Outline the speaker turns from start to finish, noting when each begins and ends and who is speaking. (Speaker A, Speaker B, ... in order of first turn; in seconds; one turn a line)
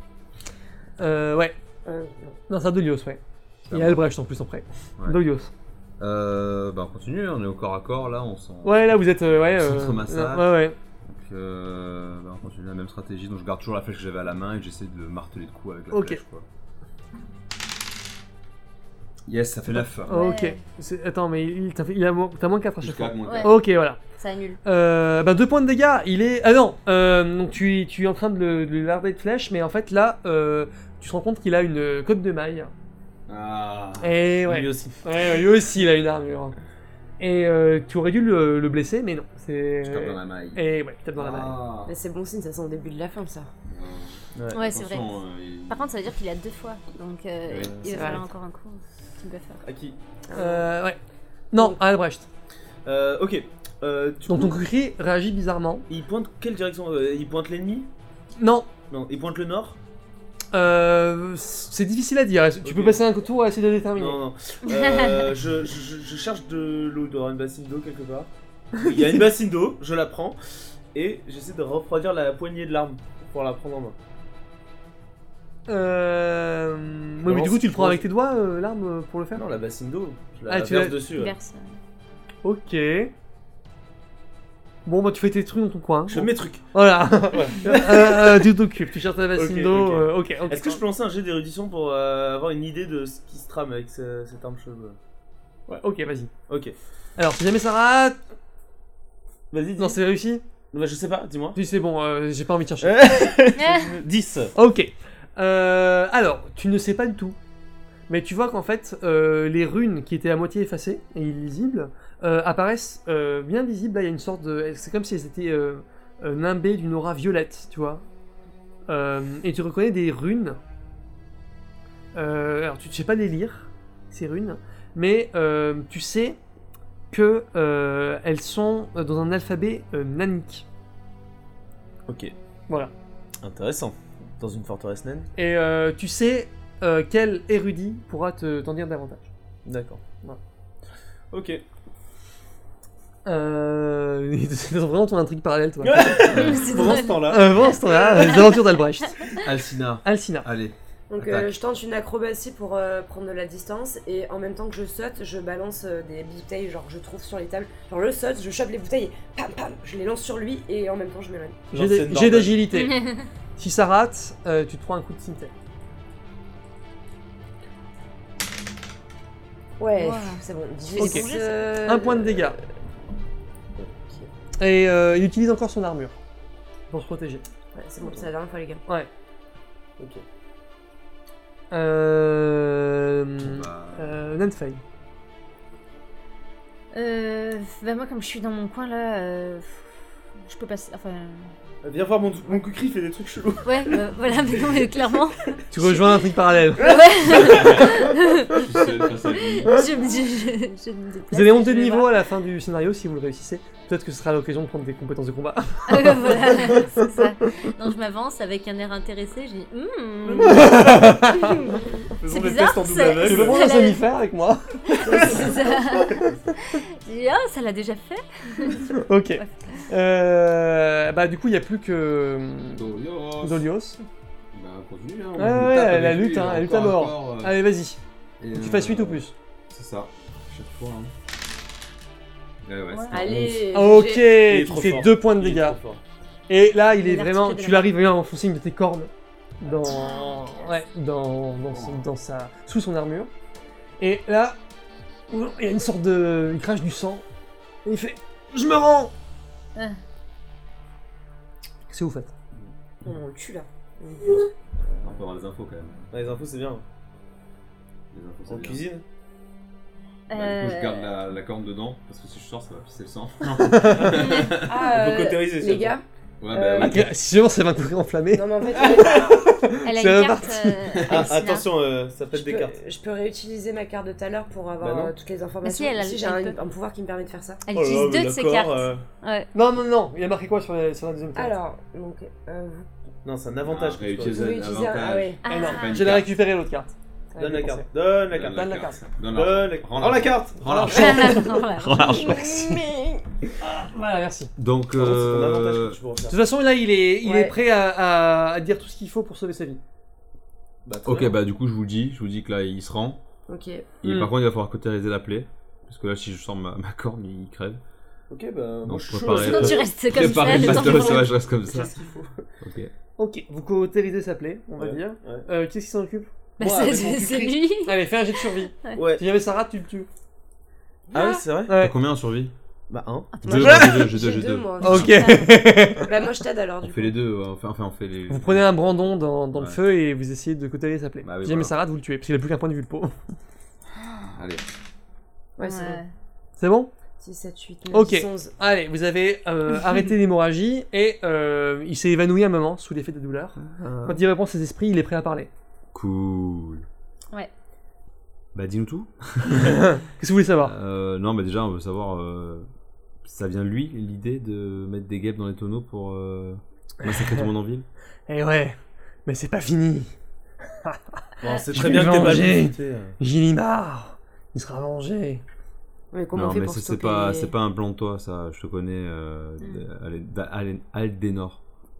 Speaker A: 1.0-1.5
Speaker B: 1.8-2.4
Speaker A: 2.5-5.5
Speaker C: 3.6-4.0
Speaker C: 6.0-8.9
Speaker A: 8.6-10.8
Speaker C: 9.5-10.5
Speaker C: 11.0-16.4
Speaker A: 15.9-16.2
Speaker C: 19.3-20.2
Speaker A: 19.7-24.0
Speaker D: 20.1-20.6
Speaker C: 22.8-23.6
Speaker D: 23.2-23.5
Speaker D: 24.2-24.6
Speaker A: 24.6-32.7
Speaker C: 33.3-34.2
Speaker A: 34.0-36.5
Speaker E: 34.5-35.0
Speaker A: 37.2-41.6
Speaker C: 39.8-40.6
Speaker C: 41.1-41.9
Speaker B: 41.9-43.5
Speaker C: 43.7-45.9
Speaker E: 44.4-44.6
Speaker D: 44.5-49.6
Speaker C: 47.5-48.2
Speaker B: 47.9-48.2
Speaker E: 49.6-50.0
Speaker B: 50.3-50.6
Speaker A: 50.3-51.0
Speaker A: 51.5-52.2
Speaker E: 52.8-54.5
Speaker A: 54.3-55.9
Speaker E: 55.9-57.9
Speaker A: 58.4-58.7
Speaker E: 58.9-59.8
Speaker A: 60.5-64.2
Speaker E: 62.6-63.0
Speaker E: 64.0-70.4
Speaker D: 64.7-65.3
Speaker E: 70.9-74.0
Speaker A: 75.7-79.4
Speaker E: 77.2-78.0
Speaker E: 79.3-81.3
Speaker A: 80.5-81.0
Speaker D: 81.2-81.8
Speaker A: 82.4-83.1
Speaker A: 84.8-90.8
Speaker E: 86.1-86.6
Speaker E: 87.3-88.5
Speaker E: 89.3-95.0
Speaker A: 95.8-96.3
Speaker E: 96.5-96.7
Speaker A: 97.2-98.2
Speaker E: 99.5-100.0
Speaker A: 99.8-100.4
Speaker E: 100.7-101.6
Speaker A: 101.5-103.0
Speaker E: 102.8-104.5
Speaker D: 103.5-104.0
Speaker A: 104.5-107.4
Speaker A: 108.1-118.0
Speaker A: 118.9-120.6
Speaker A: 122.1-126.4
Speaker A: 127.1-130.7
Speaker E: 132.1-132.3
Speaker E: 133.4-135.3
Speaker A: 135.3-139.3
Speaker E: 139.7-140.0
Speaker E: 141.3-141.6
Speaker A: 143.2-146.4
Speaker E: 145.8-147.5
Speaker D: 146.3-147.2
Speaker C: 146.3-146.7
Speaker A: 147.2-149.4
Speaker D: 148.1-148.5
Speaker C: 149.3-151.6
Speaker A: 150.0-150.5
Speaker B: 151.1-161.6
Speaker E: 161.7-162.7
Speaker A: 161.7-165.5
Speaker D: 162.7-163.2
Speaker B: 169.8-172.5
Speaker D: 169.9-171.8
Speaker A: 171.0-171.3
Speaker A: 171.8-172.6
Speaker E: 173.8-174.3
Speaker A: 174.6-176.2
Speaker A: 176.9-177.4
Speaker B: 177.7-178.8
Speaker E: 180.0-180.2
Speaker A: 181.7-184.8
Speaker C: 183.4-184.2
Speaker D: 186.9-189.9
Speaker D: 190.4-191.5
Speaker E: 191.8-194.0
Speaker D: 193.6-196.1
Speaker A: 195.7-197.0
Speaker D: 196.7-202.2
Speaker E: 196.8-197.8
Speaker C: 197.4-199.9
Speaker A: 201.3-207.5
Speaker D: 205.9-210.9
Speaker E: 210.2-211.2
Speaker A: 210.4-211.7
Speaker B: 211.5-211.8
Speaker E: 212.2-213.7
Speaker D: 212.2-214.0
Speaker A: 213.2-216.3
Speaker D: 214.9-219.8
Speaker A: 218.8-222.9
Speaker C: 222.7-223.7
Speaker A: 223.4-224.0
Speaker C: 224.5-227.6
Speaker A: 225.4-228.0
Speaker C: 228.4-231.1
Speaker A: 228.5-229.3
Speaker C: 232.6-233.6
Speaker D: 232.9-233.2
Speaker B: 233.1-234.4
Speaker A: 233.7-235.8
Speaker E: 234.4-236.0
Speaker A: 236.5-239.1
Speaker D: 237.0-238.0
Speaker A: 239.6-243.3
Speaker D: 239.8-240.7
Speaker C: 241.7-242.0
Speaker A: 244.0-244.6
Speaker A: 245.3-247.2
Speaker A: 247.8-249.1
Speaker A: 251.9-252.3
Speaker B: 253.0-254.5
Speaker E: 254.9-255.2
Speaker C: 255.0-256.1
Speaker E: 256.1-256.8
Speaker C: 258.1-258.8
Speaker E: 258.5-259.0
Speaker D: 260.3-261.2
Speaker C: 260.3-264.9
Speaker A: 263.6-264.2
Speaker E: 264.0-265.9
Speaker B: 264.5-267.1
Speaker C: 266.4-267.1
Speaker A: 266.8-271.0
Speaker B: 268.3-269.4
Speaker D: 269.8-271.7
Speaker C: 270.9-271.3
Speaker E: 271.1-272.8
Speaker B: 272.3-277.6
Speaker E: 274.8-275.1
Speaker D: 275.6-276.6
Speaker D: 277.6-279.5
Speaker E: 277.7-279.0
Speaker A: 279.5-281.6
Speaker B: 281.4-282.9
Speaker E: 283.2-284.4
Speaker C: 283.6-286.3
Speaker B: 284.2-285.4
Speaker D: 285.4-286.0
Speaker A: 285.5-287.9
Speaker E: 287.4-288.7
Speaker C: 288.3-292.9
Speaker A: 288.4-289.0
Speaker E: 289.3-290.9
Speaker A: 290.6-291.6
Speaker D: 290.9-292.1
Speaker B: 291.2-293.2
Speaker A: 293.6-294.5
Speaker C: 294.6-296.0
Speaker E: 294.9-296.4
Speaker A: 296.3-299.8
Speaker B: 297.2-297.5
Speaker E: 300.9-301.4
Speaker C: 301.0-303.2
Speaker B: 303.5-303.9
Speaker C: 304.0-307.8
Speaker A: 304.0-304.3
Speaker E: 308.3-312.4
Speaker C: 308.8-311.9
Speaker D: 309.2-311.3
Speaker C: 312.6-312.9
Speaker A: 313.2-316.3
Speaker E: 314.8-315.5
Speaker E: 316.6-317.6
Speaker D: 316.6-319.0
Speaker A: 317.8-320.1
Speaker E: 318.9-319.2
Speaker E: 321.1-321.7
Speaker A: 321.7-321.9
Speaker C: 321.7-322.5
Speaker E: 322.9-323.4
Speaker C: 323.4-325.1
Speaker B: 323.4-327.1
Speaker D: 324.8-325.5
Speaker A: 324.8-326.1
Speaker C: 326.8-328.8
Speaker A: 328.3-333.1
Speaker C: 329.5-329.8
Speaker C: 331.2-331.7
Speaker C: 334.2-334.6
Speaker B: 335.6-336.0
Speaker D: 335.6-336.1
Speaker A: 336.6-336.9
Speaker B: 337.2-338.5
Speaker A: 337.9-345.5
Speaker C: 343.6-344.2
Speaker C: 345.9-346.8
Speaker C: 348.5-349.8
Speaker A: 349.6-350.7
Speaker C: 350.6-352.7
Speaker C: 353.2-357.9
Speaker A: 357.1-357.4
Speaker A: 358.3-360.1
Speaker A: 360.8-365.4
Speaker E: 361.4-363.1
Speaker B: 366.1-367.5
Speaker C: 366.3-371.6